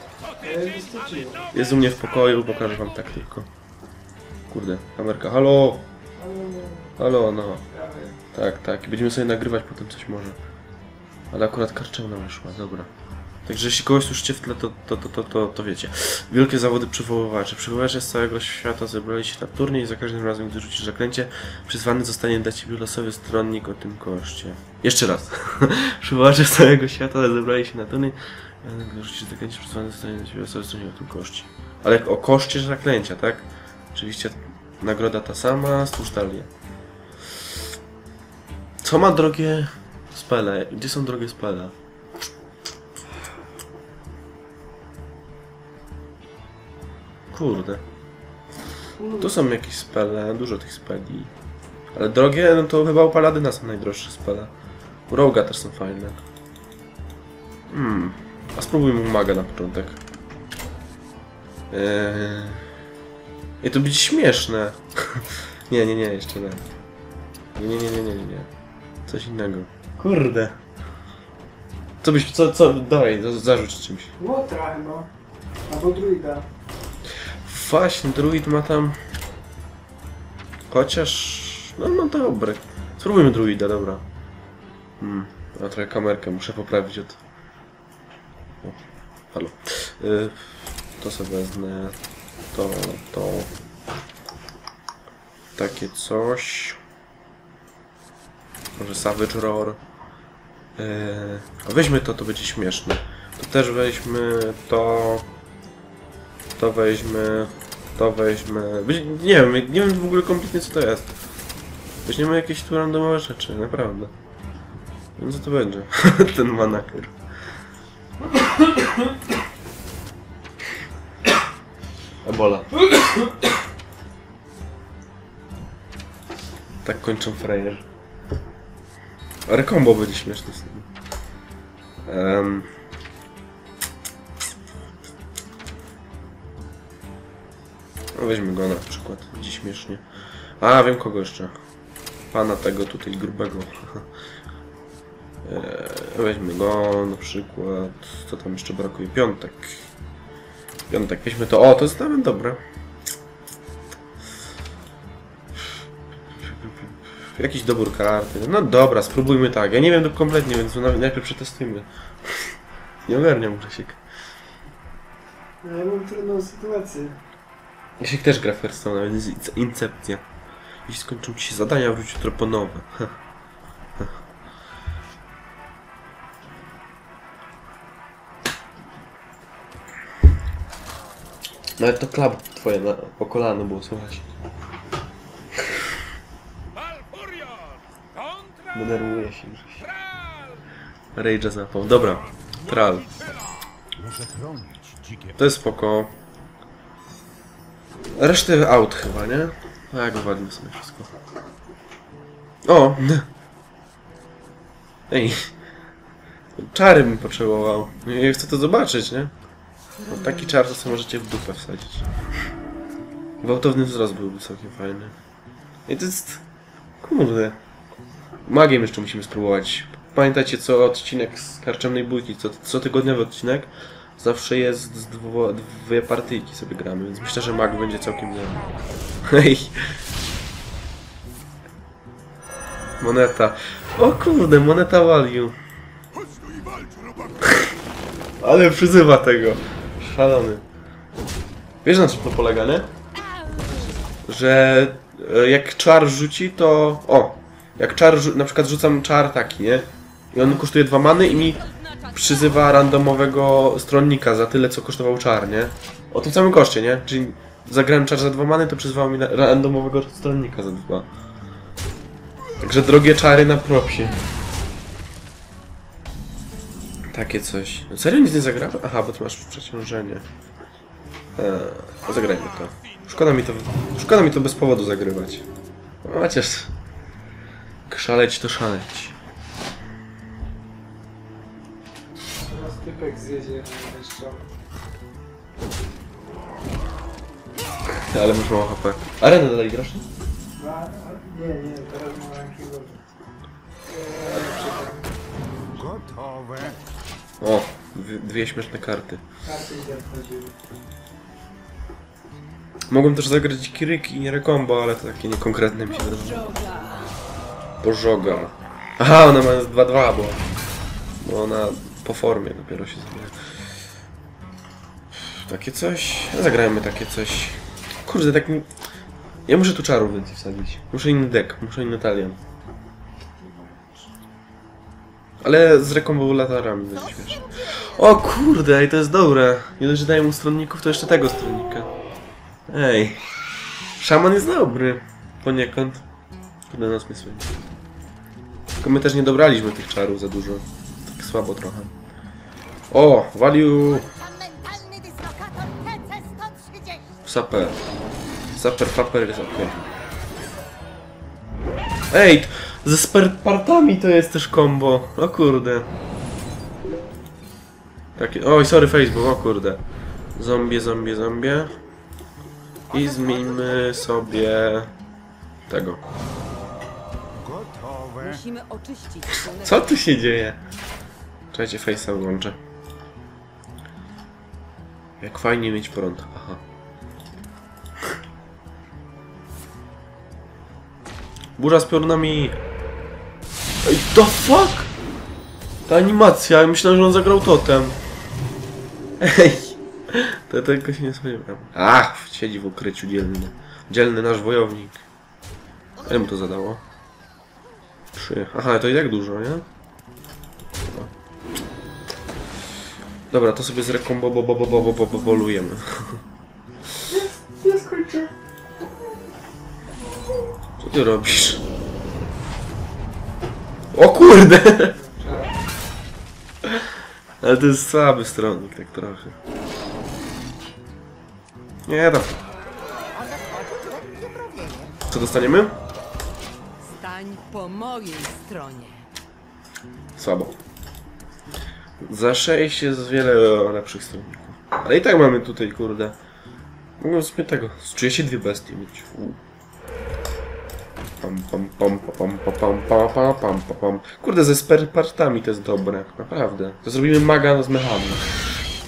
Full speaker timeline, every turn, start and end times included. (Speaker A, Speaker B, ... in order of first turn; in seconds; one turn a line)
Speaker A: 0.4-1.4
Speaker B: 1.5-3.5
Speaker B: 4.5-5.8
Speaker A: 6.2-6.9
Speaker B: 7.0-7.6
Speaker A: 7.7-8.2
Speaker B: 8.3-10.4
Speaker B: 11.3-12.9
Speaker B: 13.4-36.5
Speaker B: 38.8-41.7
Speaker B: 47.3-47.8
Speaker A: 49.0-49.3
Speaker B: 49.1-51.3
Speaker B: 51.9-54.5
Speaker B: 55.1-56.2
Speaker B: 57.7-60.0
Speaker B: 61.7-62.6
Speaker B: 63.6-66.6
Speaker B: 67.5-68.5
Speaker B: 69.1-70.6
Speaker B: 72.0-74.1
Speaker A: 74.2-75.1
Speaker A: 75.7-76.5
Speaker B: 77.4-79.0
Speaker B: 80.7-84.0
Speaker B: 85.0-87.2
Speaker B: 88.6-92.0
Speaker B: 92.5-93.5
Speaker B: 95.5-96.8
Speaker B: 98.8-99.8
Speaker B: 100.8-105.3
Speaker B: 106.6-111.1
Speaker B: 112.0-114.1
Speaker B: 115.2-117.1
Speaker B: 122.2-122.9
Speaker B: 126.8-127.8
Speaker B: 129.4-130.9
Speaker B: 132.1-132.7
Speaker B: 138.1-140.0
Speaker B: 140.6-141.5
Speaker B: 142.3-144.1
Speaker B: 145.4-149.8
Speaker B: 150.9-152.6
Speaker B: 156.4-162.5
Speaker B: 163.1-164.0
Speaker A: 165.6-167.2
Speaker B: 168.0-170.2
Speaker B: 170.8-173.1
Speaker B: 181.8-184.2
Speaker B: 188.7-189.9
Speaker B: 191.1-193.1
Speaker B: 195.3-196.1
Speaker B: 198.2-201.1
Speaker B: 202.7-203.3
Speaker B: 205.1-205.5
Speaker B: 206.6-209.3
Speaker B: 210.0-212.1
Speaker C: 210.3-210.6
Speaker B: 213.4-215.1
Speaker B: 215.9-216.4
Speaker B: 217.0-217.6
Speaker B: 218.4-228.6
Speaker B: 229.2-229.9
Speaker B: 233.0-235.6
Speaker B: 238.4-240.6
Speaker B: 241.8-242.9
Speaker B: 244.2-261.1
Speaker B: 262.6-264.2
Speaker B: 267.1-270.2
Speaker B: 271.4-275.5
Speaker B: 276.0-276.7
Speaker B: 277.9-279.1
Speaker A: 282.4-284.5
Speaker B: 288.0-290.1
Speaker A: 290.6-293.1
Speaker A: 293.9-295.1
Speaker A: 295.7-296.0
Speaker B: 297.4-299.2
Speaker A: 299.4-300.6
Speaker B: 302.9-306.6
Speaker C: 306.4-307.1
Speaker B: 307.8-310.4
Speaker B: 311.2-313.4
Speaker B: 315.1-318.7
Speaker B: 319.5-322.4
Speaker A: 323.4-323.8
Speaker B: 325.4-331.9
Speaker B: 332.7-333.2
Speaker B: 334.0-336.0
Speaker B: 336.7-337.5
Speaker B: 338.8-341.9
Speaker B: 342.9-344.2
Speaker C: 344.5-346.9
Speaker B: 347.2-347.8
Speaker B: 348.5-349.8
Speaker B: 352.1-355.9
Speaker B: 358.1-359.8
Speaker B: 360.4-361.7
Speaker B: 362.9-364.9
Speaker B: 365.7-366.1
Speaker C: 368.1-369.8
Speaker B: 369.4-370.6
Speaker B: 371.5-372.6
Speaker B: 375.2-376.6
Speaker B: 381.6-382.6
Speaker B: 383.8-384.9
Speaker B: 385.9-388.0
Speaker B: 389.2-395.1
Speaker B: 396.0-396.8
Speaker B: 398.1-399.7
Speaker B: 400.9-401.1
Speaker B: 403.3-406.2
Speaker A: 407.1-408.3
Speaker B: 410.8-411.6
Speaker B: 413.9-414.9
Speaker A: 414.9-415.6
Speaker B: 417.4-419.3
Speaker B: 421.9-422.4
Speaker C: 423.1-425.0
Speaker B: 425.1-425.8
Speaker C: 426.8-429.1
Speaker B: 430.2-430.6
Speaker B: 432.0-436.1
Speaker B: 437.0-439.4
Speaker B: 441.2-448.3